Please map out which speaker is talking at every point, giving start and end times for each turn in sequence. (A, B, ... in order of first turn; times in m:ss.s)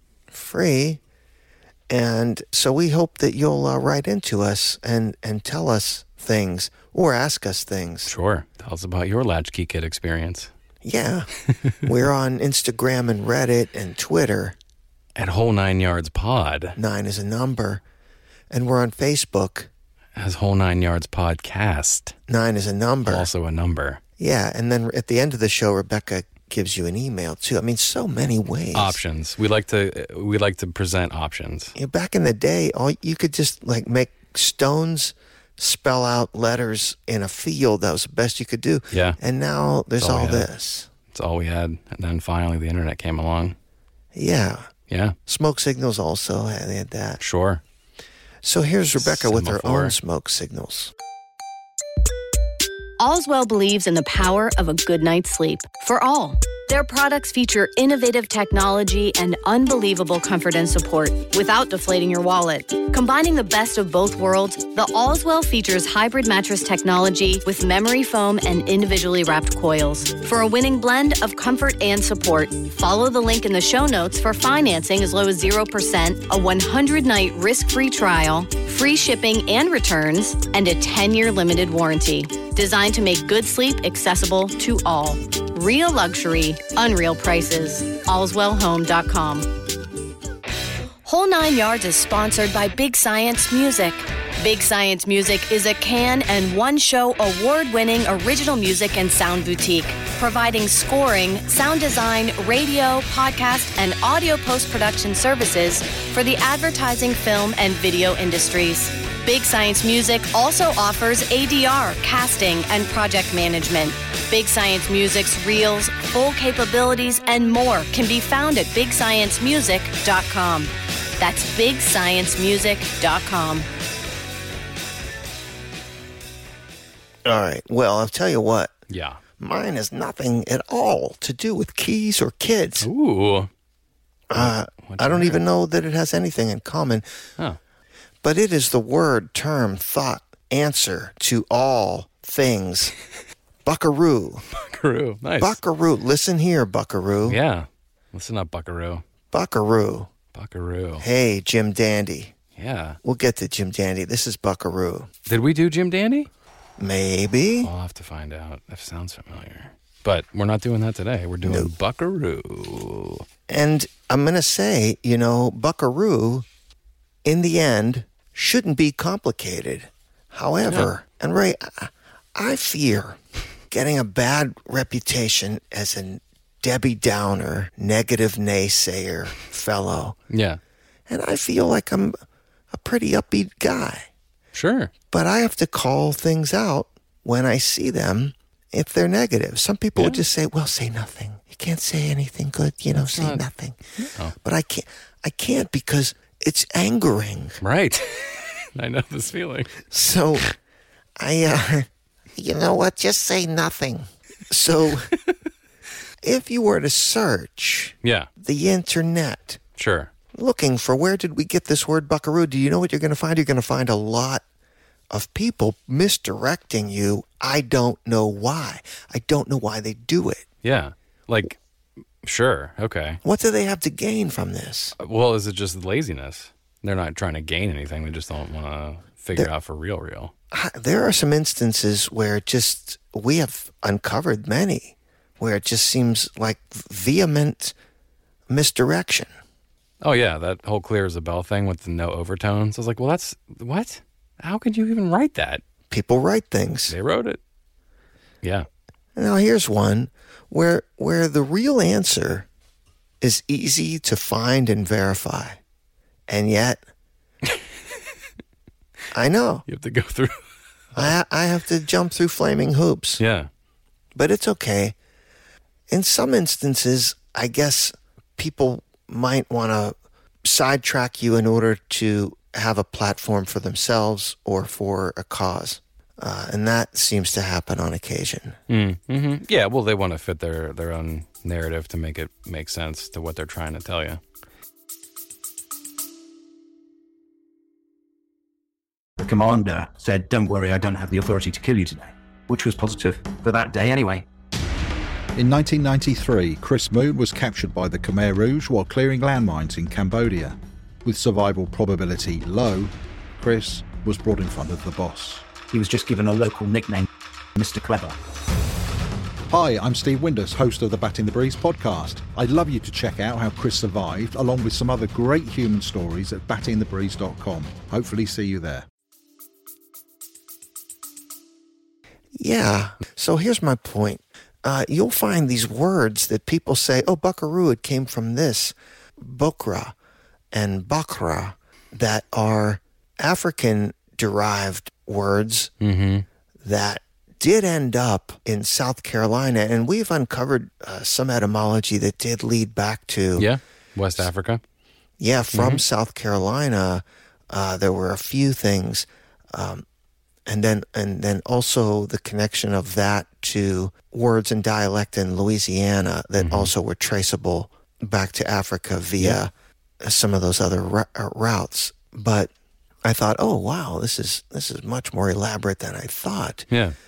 0:00.3-0:01.0 A
0:01.9-0:08.1 A
0:08.0-0:10.5 B
0:10.8-0:11.3 A
0:11.8-0:14.6 A
0:15.2-0:16.8 B
0:16.8-0:17.8 A
0:18.5-0:19.7 A
0:20.2-0:22.1 B
0:22.3-0:23.3 A
0:23.0-0:24.0 B
0:24.2-0:29.0 A
0:28.7-0:31.7 B
0:31.8-0:40.9 A
0:38.9-0:39.2 B
0:40.0-0:40.5 B
0:41.1-0:43.6 B
0:44.1-0:44.7 A
0:44.9-0:45.2 B
0:45.2-0:47.2 A
0:47.2-0:47.6 B
0:48.4-0:50.9 A
0:49.0-0:49.9 B
0:53.0-1:29.5 C
1:31.0-2:03.7 C
2:07.2-2:08.7 A
2:08.9-2:09.2 B
2:09.4-2:12.9 A
2:12.8-2:13.5 B
2:14.3-2:17.0 A
2:14.3-2:15.4 B
2:18.2-2:22.9 A
2:23.6-2:24.4 A
2:24.5-2:25.6 B
2:25.4-2:27.4 A
2:27.2-2:29.0 B
2:29.3-2:30.1 A
2:30.3-2:31.0 B
2:31.0-2:32.3 A
2:32.6-2:33.0 B
2:33.0-2:35.1 A
2:35.3-2:36.3 B
2:36.8-2:37.7 A
2:37.6-2:43.2 B
2:41.4-2:41.7 A
2:43.5-2:46.4 A
2:47.2-2:53.2 A
2:53.7-3:00.2 A
3:00.3-3:00.6 B
3:01.1-3:02.2 A
3:02.7-3:04.1 A
3:04.5-3:04.9 B
3:05.1-3:13.8 A
3:10.0-3:10.2 B
3:12.9-3:13.4 B
3:14.0-3:14.3 B
3:14.4-3:17.6 A
3:17.6-3:19.8 B
3:19.9-3:20.4 A
3:21.2-3:25.1 A
3:26.2-3:29.6 A
3:28.0-3:28.3 B
3:29.8-3:30.1 B
3:30.3-3:34.4 A
3:35.1-3:40.4 A
3:40.6-3:41.6 B
3:42.2-3:43.2 B
3:43.2-3:44.9 A
3:45.0-3:50.3 B
3:50.5-3:57.7 A
3:58.5-3:59.3 A
4:00.0-4:05.6 B
4:05.9-4:07.0 A
4:06.9-4:07.4 B
4:08.4-4:08.7 B
4:09.2-4:12.4 A
4:13.2-4:15.6 A
4:16.3-4:16.8 A
4:19.1-4:19.6 A
4:19.6-4:21.1 B
4:21.0-4:23.2 A
4:23.2-4:23.5 B
4:24.1-4:24.9 A
4:25.9-4:38.6 A
4:38.7-4:44.2 B
4:49.2-4:54.2 D
4:55.3-5:05.5 E
5:05.7-5:08.1 D
5:09.5-5:18.8 E
5:22.4-5:29.9 A
5:30.5-5:35.7 A
5:35.8-5:36.2 B
5:36.6-5:43.5 A
5:43.4-5:44.6 B
5:45.2-5:49.8 A
5:45.5-5:45.8 B
5:50.4-5:59.5 A
5:56.4-5:56.7 B
6:00.0-6:02.5 A
6:03.0-6:06.7 A
6:06.7-6:07.0 B